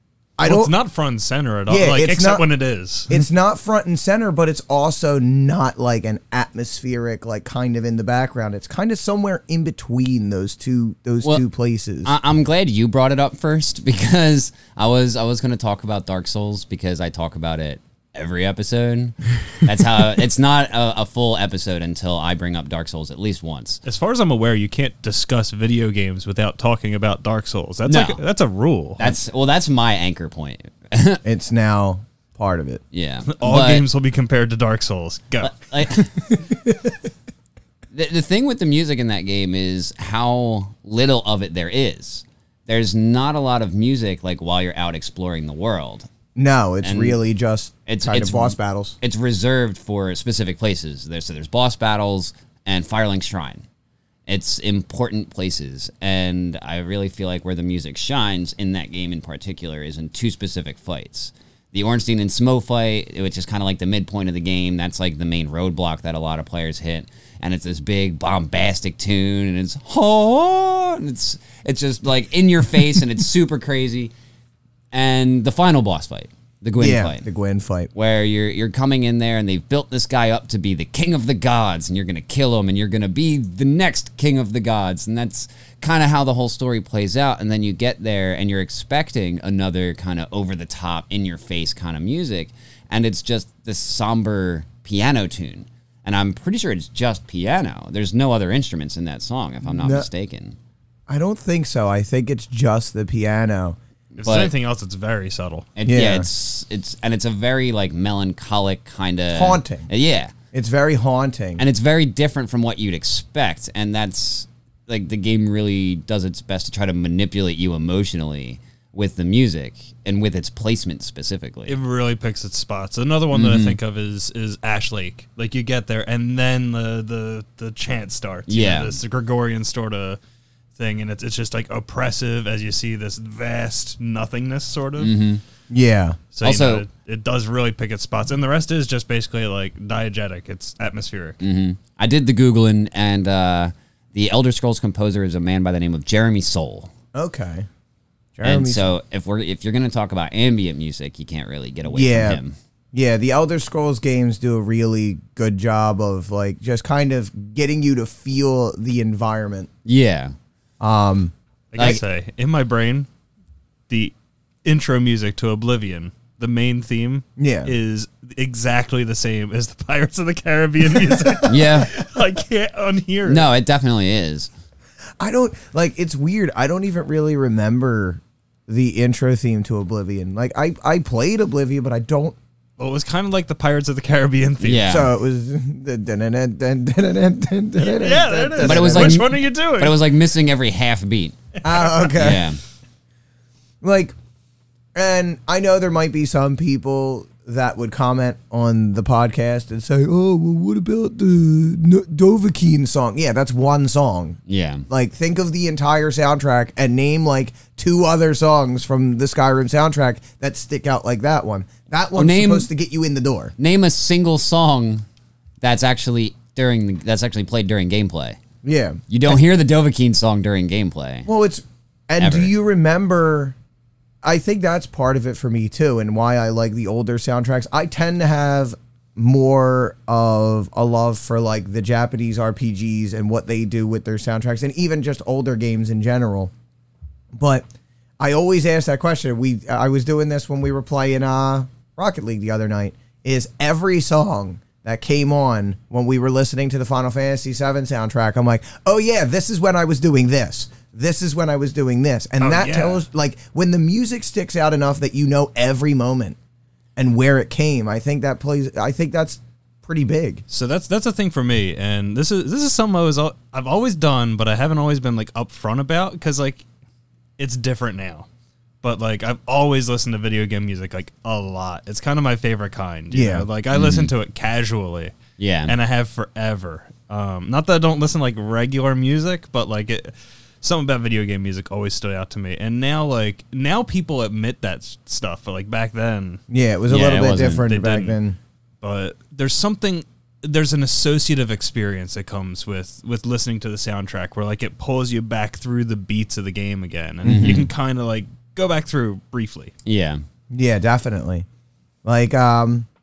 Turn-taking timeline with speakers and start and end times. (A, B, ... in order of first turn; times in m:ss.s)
0:00.4-0:00.7 A
0:00.4-0:03.2 B
0:01.7-0:02.4 A
0:03.1-0:12.1 A
0:12.0-0:23.8 C
0:23.8-0:29.2 B
0:27.9-0:28.2 C
0:29.0-0:31.2 C
0:31.2-0:32.8 A
0:32.9-0:33.8 C
0:33.2-0:36.0 B
0:35.4-0:36.4 C
0:37.9-0:46.1 C
0:46.4-0:49.0 A
0:46.8-0:47.2 C
0:47.8-0:53.6 C
0:54.3-1:14.1 C
1:14.9-1:17.2 C
1:16.8-1:17.9 A
1:17.9-1:40.6 C
1:39.6-1:40.1 A
1:41.1-1:43.8 A
1:44.2-1:45.7 B
1:44.2-1:44.5 C
1:45.8-1:50.3 C
1:45.9-1:46.3 A
1:49.3-1:49.9 A
1:50.5-1:51.6 A
1:51.6-2:01.7 C
2:01.7-2:10.2 B
2:03.3-2:03.8 C
2:08.5-2:09.0 C
2:10.8-2:15.1 B
2:15.0-2:15.4 C
2:15.7-2:16.2 A
2:16.3-2:21.4 B
2:16.4-2:16.8 C
2:21.4-2:26.9 C
2:27.1-2:27.7 A
2:28.4-2:28.9 A
2:28.4-2:32.5 C
2:31.9-2:32.4 A
2:32.9-2:39.7 A
2:39.8-2:40.3 C
2:40.8-2:42.0 A
2:41.7-2:43.1 B
2:41.8-2:42.0 C
2:43.9-2:53.4 B
2:47.4-2:47.7 A
2:51.1-2:51.4 A
2:51.4-2:51.9 C
2:53.2-2:54.5 C
2:55.2-3:02.4 A
3:02.8-3:05.0 B
3:04.6-3:05.1 C
3:04.9-3:09.2 A
3:07.8-3:10.0 B
3:08.6-3:11.4 C
3:11.6-3:12.4 A
3:12.1-3:12.6 C
3:13.8-3:14.1 A
3:14.9-3:33.5 A
3:24.5-3:24.8 C
3:32.1-3:32.7 C
3:33.6-3:35.0 C
3:35.6-3:38.4 C
3:38.6-3:39.4 A
3:39.1-3:41.3 C
3:41.3-3:43.5 A
3:42.2-3:42.5 C
3:44.2-3:56.5 A
3:57.3-3:57.7 A
3:58.2-4:16.4 A
4:12.4-4:13.0 B
4:17.0-4:20.4 A
4:20.5-4:26.6 B
4:27.4-4:28.3 B
4:28.8-4:35.1 B
4:33.1-4:33.5 A
4:33.7-4:34.1 C
4:35.4-4:35.7 C
4:35.6-4:46.4 B
4:46.5-4:48.4 A
4:46.9-4:47.6 C
4:47.5-4:48.2 B
4:48.8-4:59.7 B
4:57.2-4:57.7 C
4:57.3-4:57.6 A
4:59.8-5:00.2 C
5:00.5-5:01.4 A
5:02.0-5:02.9 A